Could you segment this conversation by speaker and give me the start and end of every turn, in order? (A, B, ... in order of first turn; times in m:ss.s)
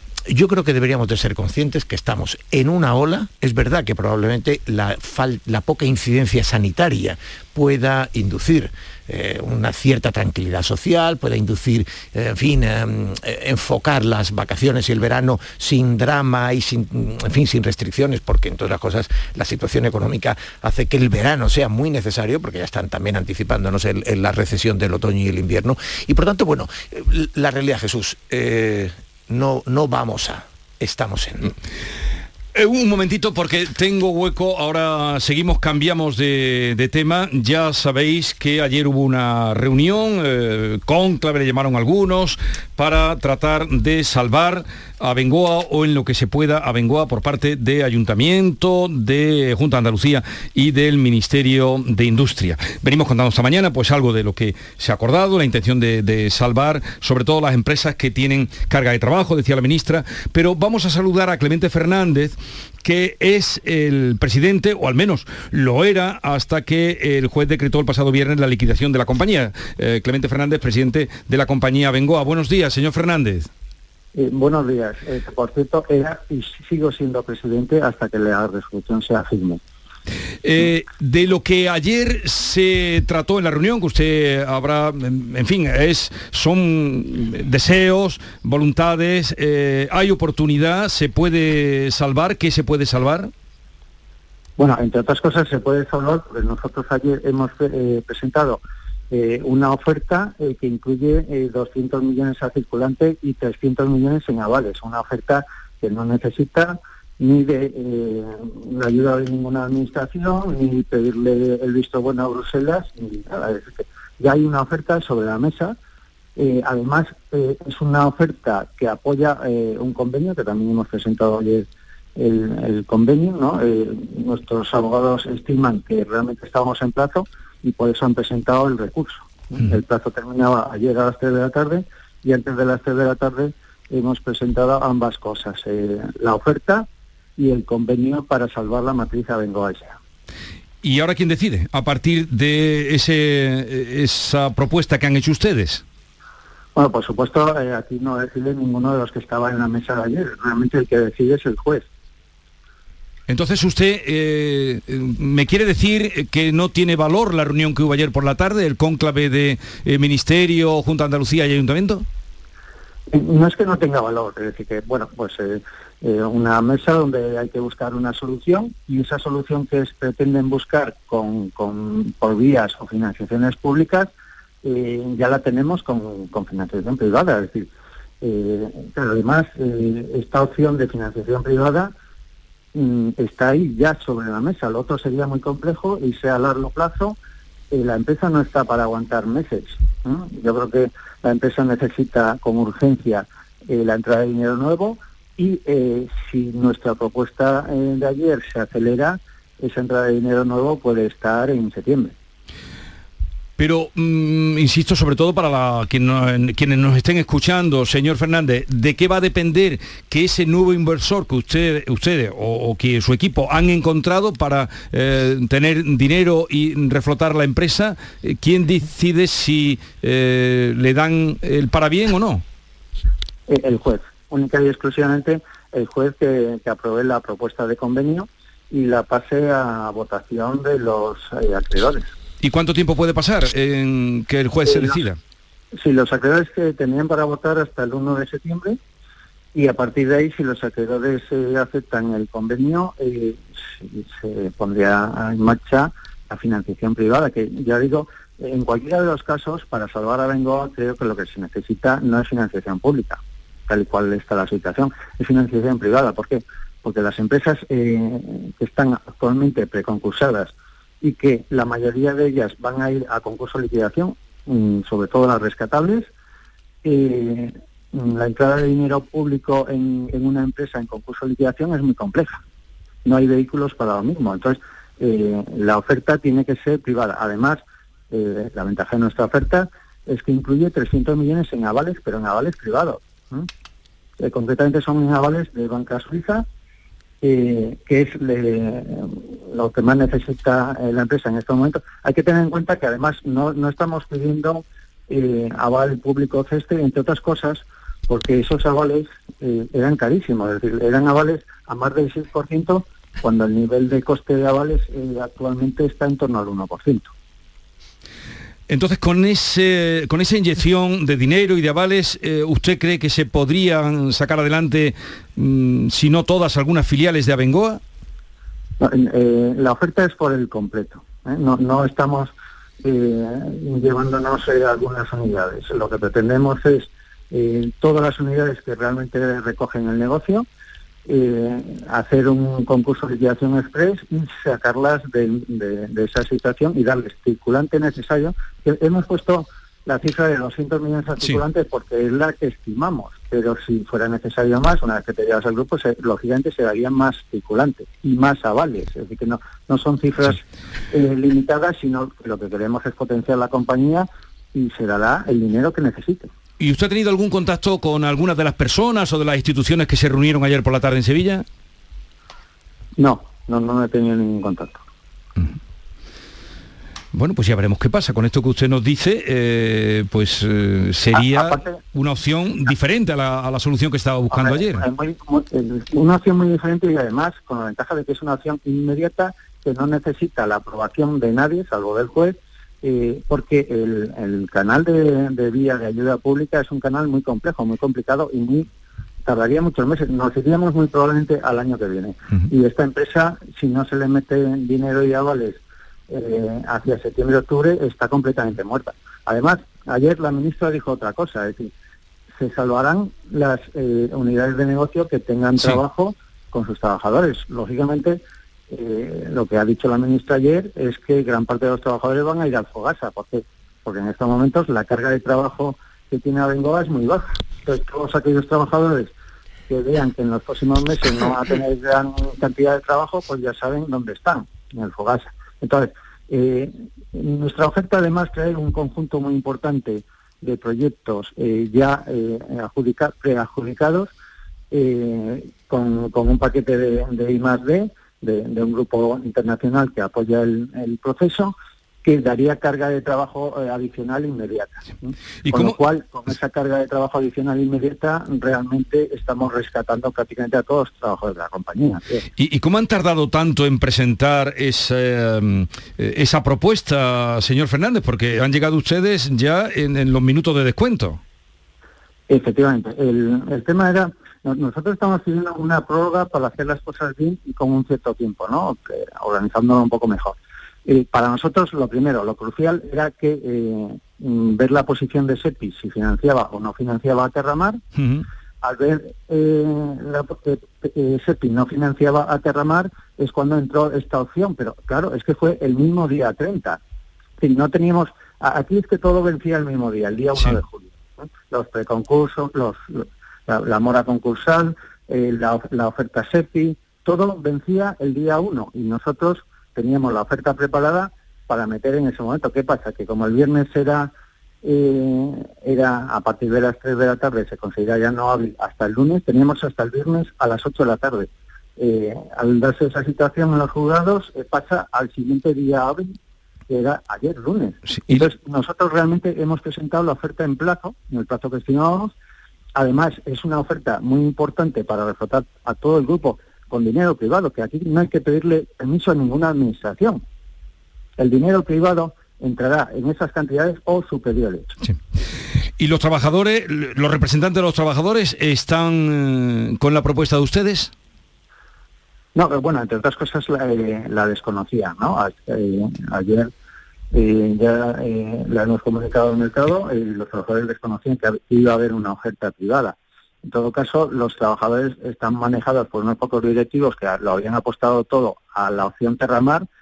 0:00.3-0:31.5 A
0:32.5-1:13.5 B
1:14.1-1:19.6 C
1:20.4-1:33.3 B
1:34.6-1:38.6 C
1:39.1-1:55.8 C
1:56.4-2:01.6 C
2:02.2-2:16.8 C
2:17.4-2:20.0 C
2:20.8-2:25.8 B
2:26.7-2:31.8 C
2:33.3-2:42.0 B
2:43.1-2:54.1 C
2:54.6-2:57.7 C
2:58.2-3:01.9 C
3:02.7-3:07.2 C
3:07.7-3:22.1 C
3:23.6-3:42.4 B
3:43.5-3:52.1 C
3:52.4-3:55.2 B
3:54.7-3:55.0 C
3:55.8-3:58.8 C
3:59.5-4:26.1 C
4:26.8-4:32.4 C
4:33.0-4:37.6 C
4:38.1-4:43.4 C
4:44.2-4:46.4 C
4:47.2-5:07.1 C
5:08.7-5:17.8 B
5:18.8-5:22.3 C
5:22.8-5:30.4 C
5:31.1-5:50.4 C
5:50.9-5:56.3 C
5:56.6-6:01.4 B
6:03.0-6:04.8 C
6:07.1-6:14.8 B
6:11.1-6:11.8 C
6:14.3-6:28.7 C
6:29.2-6:41.7 C
6:42.4-6:48.2 C
6:48.7-6:59.1 C
6:59.7-7:14.1 C
7:14.7-7:32.2 C
7:25.4-7:25.8 B
7:32.4-7:41.2 B
7:42.3-7:50.3 C
7:50.8-7:57.8 C
7:58.0-7:58.2 B
7:58.6-8:06.8 C
8:07.4-8:24.1 C
8:24.6-8:36.1 C
8:36.7-8:42.1 C
8:37.8-8:38.2 B
8:42.8-8:50.2 C
8:51.2-8:54.7 C
8:55.8-9:00.9 B
9:02.3-9:06.5 C
9:07.1-9:19.6 C